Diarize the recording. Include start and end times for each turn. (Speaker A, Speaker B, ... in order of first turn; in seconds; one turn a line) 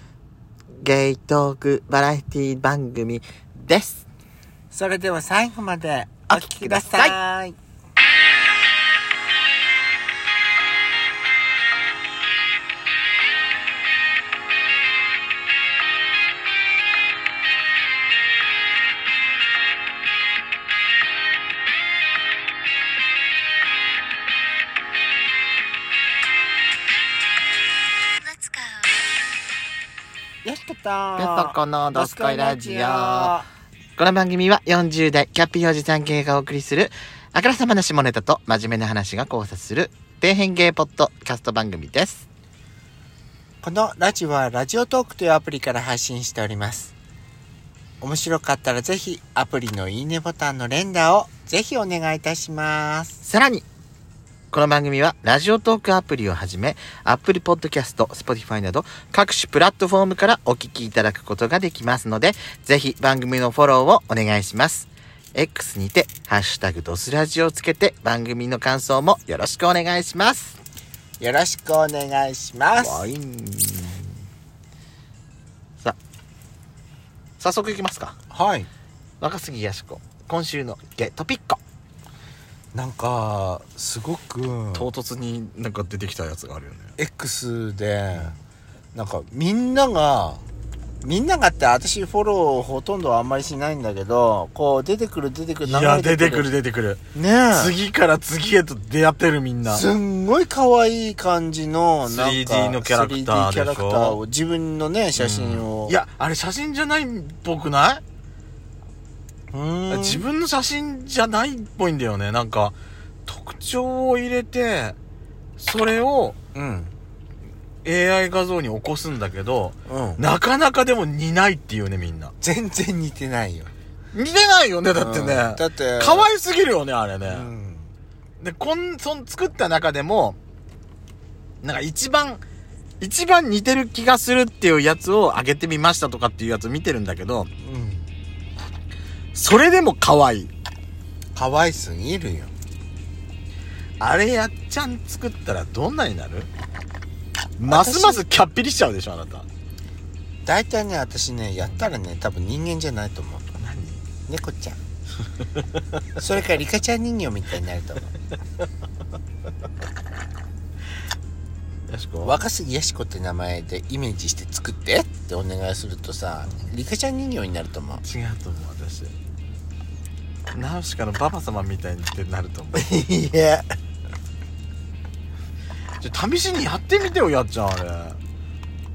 Speaker A: 0.8-4.0
Speaker B: 4.7-7.6
Speaker A: 6.3-7.2
Speaker B: 30.4-33.5
Speaker A: 31.2-33.4
Speaker A: 34.0-42.3
Speaker B: 43.6-46.9
Speaker B: 48.0-53.2
Speaker A: 53.2-53.7
Speaker A: 54.5-70.6
Speaker B: 71.2-73.1
Speaker C: 72.8-74.1
Speaker A: 77.4-78.2
Speaker B: 78.3-78.7
Speaker A: 79.2-80.2
Speaker C: 80.2-81.0
Speaker A: 80.8-81.6
Speaker B: 82.7-84.9
Speaker C: 84.7-86.9
Speaker B: 87.0-88.4
Speaker B: 88.9-90.4
Speaker B: 91.0-96.5
Speaker C: 95.7-99.8
Speaker B: 97.1-97.8
Speaker B: 99.7-106.0
Speaker C: 102.1-104.2
Speaker C: 105.2-108.0
Speaker B: 109.5-110.3
Speaker C: 109.9-112.8
Speaker C: 113.3-115.0
Speaker C: 115.6-116.4
Speaker B: 116.5-117.0
Speaker C: 117.8-122.3
Speaker B: 119.9-120.2
Speaker B: 122.4-123.7
Speaker C: 124.1-127.5
Speaker B: 124.9-126.3
Speaker B: 127.2-127.9
Speaker C: 128.4-130.4
Speaker C: 131.6-132.4
Speaker C: 133.0-137.5
Speaker B: 137.6-138.1
Speaker C: 139.3-140.5
Speaker B: 141.3-142.5
Speaker C: 144.0-146.5
Speaker C: 147.6-149.5
Speaker B: 147.7-148.3
Speaker B: 150.4-153.5
Speaker C: 151.6-151.9
Speaker C: 153.6-154.0
Speaker B: 154.3-154.8
Speaker B: 156.2-158.1
Speaker C: 161.9-162.4
Speaker B: 162.2-168.0
Speaker C: 168.0-169.1
Speaker C: 170.5-172.9
Speaker B: 172.7-173.8
Speaker C: 176.0-178.2